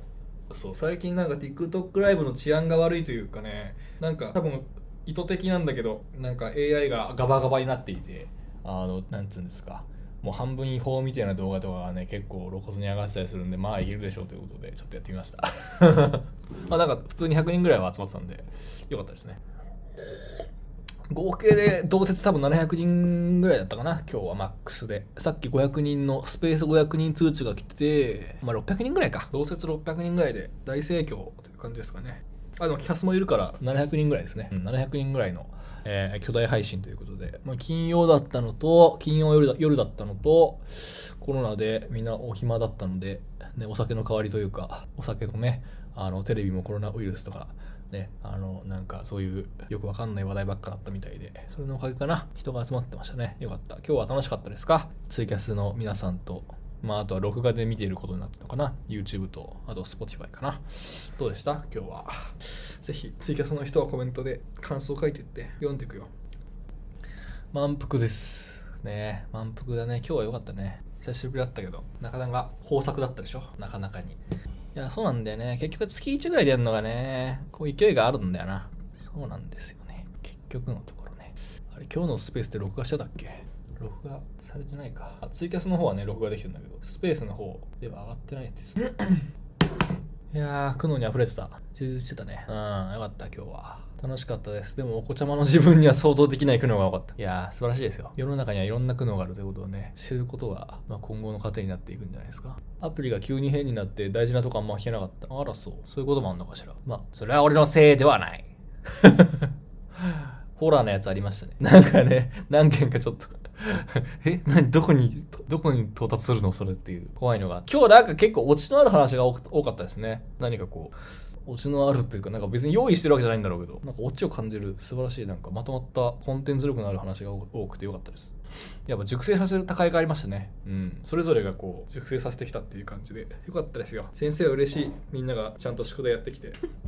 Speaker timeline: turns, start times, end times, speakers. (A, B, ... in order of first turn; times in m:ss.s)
0:00.5-0:19.4 A
0:21.1-1:02.3 A
1:02.8-1:06.1 A
1:07.5-1:14.2 A
1:14.8-1:29.2 A
1:30.3-1:49.5 A
1:50.0-2:00.9 A
2:01.5-2:08.3 A
2:08.9-2:16.6 A